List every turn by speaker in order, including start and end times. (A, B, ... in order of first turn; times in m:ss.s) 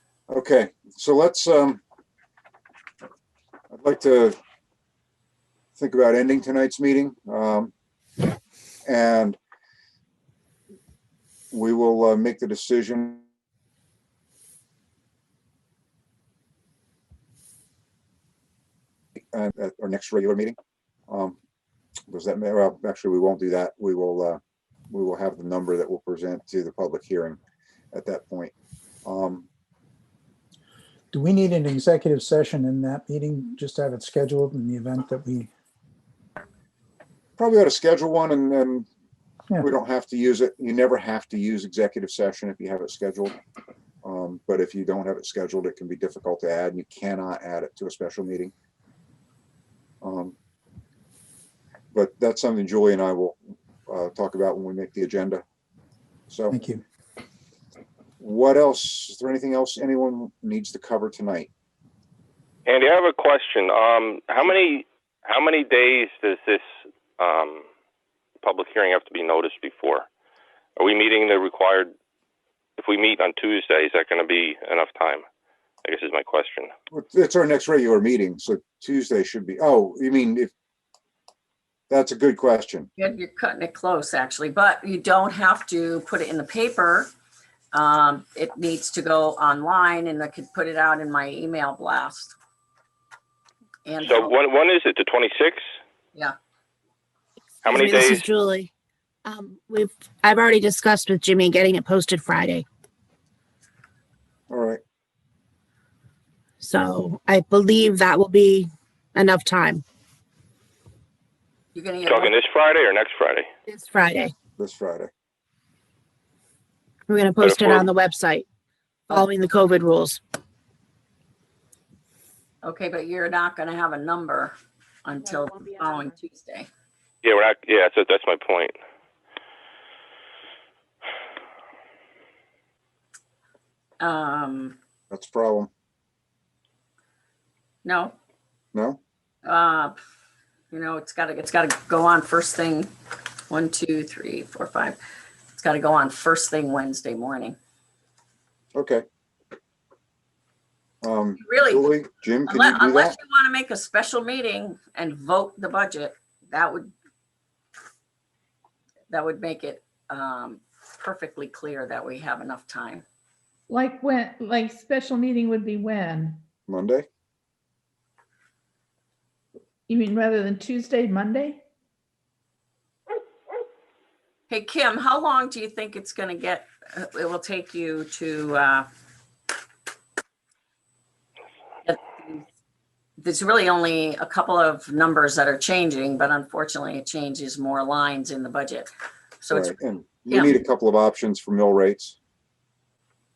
0:00.3-0:01.8 A
0:03.7-0:04.4 A
0:05.8-0:07.7 A
0:08.8-0:09.4 A
0:11.5-0:13.2 A
0:19.3-0:20.6 A
0:21.1-0:21.4 A
0:22.1-0:24.4 A
0:24.9-0:27.4 A
0:27.9-0:28.5 A
0:29.1-0:29.5 A
0:31.1-0:35.5 B
0:37.4-0:38.9 A
0:39.6-0:43.4 A
0:44.0-0:48.5 A
0:50.0-0:50.4 A
0:51.9-0:55.4 A
0:56.3-0:56.6 A
0:56.5-0:56.8 B
0:58.2-1:01.5 A
1:02.7-1:06.6 C
1:07.2-1:07.6 C
1:08.4-1:10.1 C
1:10.8-1:11.9 C
1:12.8-1:15.2 C
1:15.8-1:16.7 C
1:16.9-1:20.5 A
1:21.9-1:22.9 A
1:23.0-1:27.1 D
1:27.7-1:32.4 D
1:33.9-1:34.3 D
1:34.0-1:35.6 C
1:37.6-1:38.2 C
1:37.7-1:38.7 E
1:39.2-1:42.7 E
1:44.5-1:44.8 A
1:46.6-1:49.8 E
1:51.7-1:52.3 D
1:52.1-1:53.5 C
1:53.7-1:54.3 E
1:54.6-1:55.1 A
1:57.1-1:58.5 E
1:57.4-1:57.9 C
1:59.1-2:00.2 E
2:02.6-2:06.7 D
2:07.2-2:08.7 C
2:14.0-2:14.8 D
2:15.1-2:15.7 A
2:17.8-2:18.2 D
2:18.7-2:19.0 A
2:19.4-2:20.0 D
2:20.7-2:22.9 D
2:23.5-2:25.0 D
2:25.5-2:27.6 D
2:28.8-2:29.0 A
2:31.0-2:33.2 A
2:31.4-2:31.9 D
2:32.5-2:36.9 D
2:39.1-2:43.0 D
2:43.7-2:46.4 F
2:46.7-2:47.1 A
2:49.9-2:51.6 F
2:54.5-2:58.9 D
3:01.9-3:02.4 D
3:03.2-3:09.8 D
3:09.5-3:12.2 A
3:10.3-3:10.6 D